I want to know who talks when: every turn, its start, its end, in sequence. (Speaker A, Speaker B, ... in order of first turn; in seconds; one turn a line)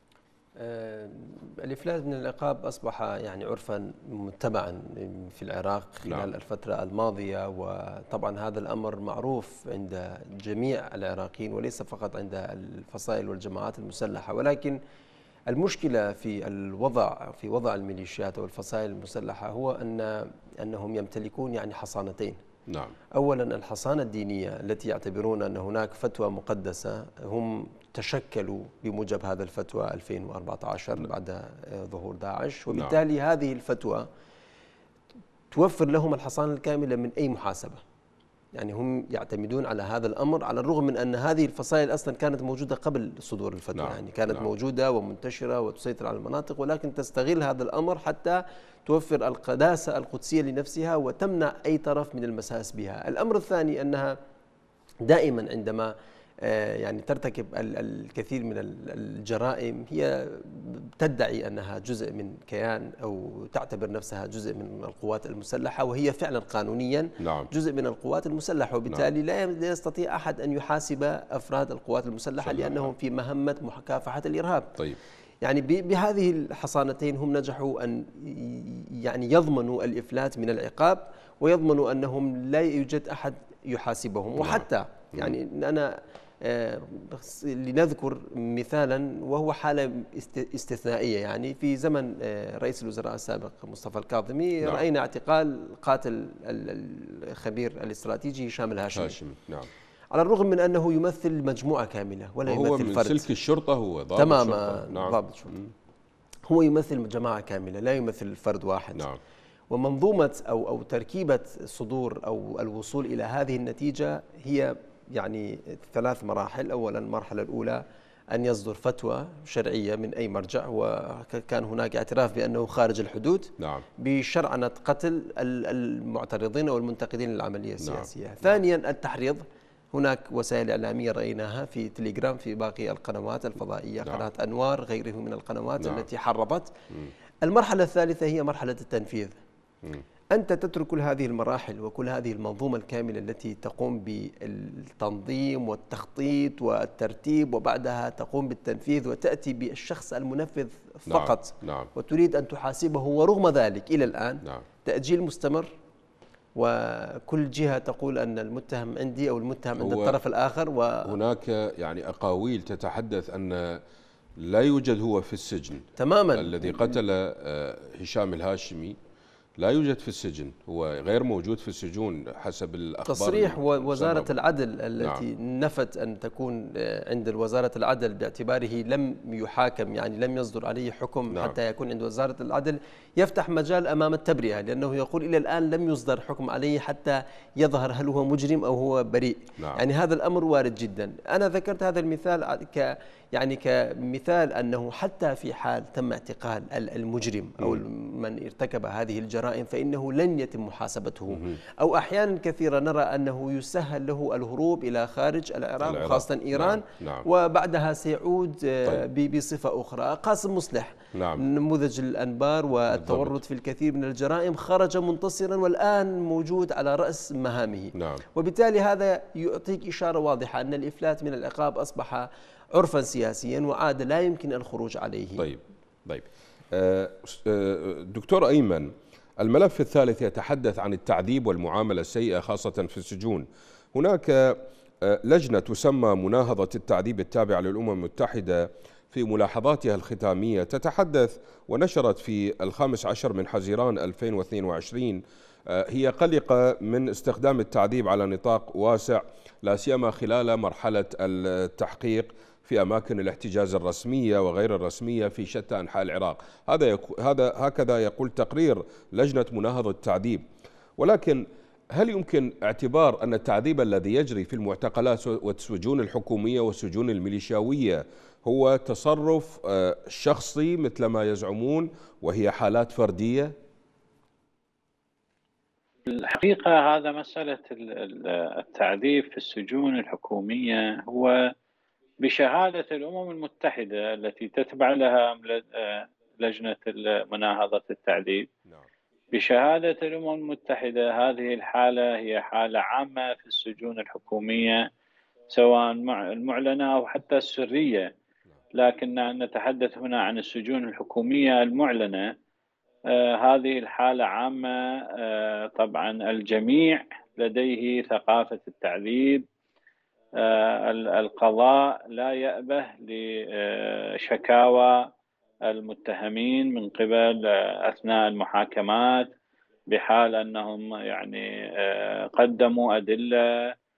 Speaker A: 0.6-14.8
Speaker A: 15.5-22.4
Speaker B: 22.7-22.9
Speaker A: 23.1-34.0
Speaker B: 32.7-33.0
Speaker A: 35.5-37.8
Speaker A: 38.5-54.1
Speaker B: 43.7-44.5
Speaker A: 55.0-74.8
Speaker B: 67.2-67.5
Speaker B: 72.4-72.9
Speaker A: 75.4-99.2
Speaker B: 84.4-85.3
Speaker B: 99.0-99.7
Speaker A: 100.1-103.2
Speaker B: 102.5-105.7
Speaker A: 104.2-105.5
Speaker A: 106.5-109.1
Speaker A: 109.7-136.7
Speaker B: 123.6-123.8
Speaker B: 127.8-128.1
Speaker A: 137.4-139.4
Speaker A: 140.3-155.7
Speaker B: 151.1-151.9
Speaker A: 156.6-161.1
Speaker B: 159.8-160.2
Speaker B: 161.0-163.8
Speaker B: 164.4-169.0
Speaker A: 166.0-167.0
Speaker B: 169.6-174.3
Speaker A: 173.1-225.5
Speaker B: 201.3-201.6
Speaker B: 205.8-207.2
Speaker B: 211.1-211.4
Speaker B: 212.9-213.4
Speaker B: 217.9-218.2
Speaker B: 225.4-260.4
Speaker B: 261.0-273.5
Speaker C: 276.1-281.4
Speaker C: 282.2-288.5
Speaker C: 289.3-294.9
Speaker C: 295.5-298.1
Speaker C: 298.7-302.3
Speaker C: 303.1-309.4
Speaker C: 310.4-315.0
Speaker C: 315.7-319.3
Speaker C: 319.9-323.7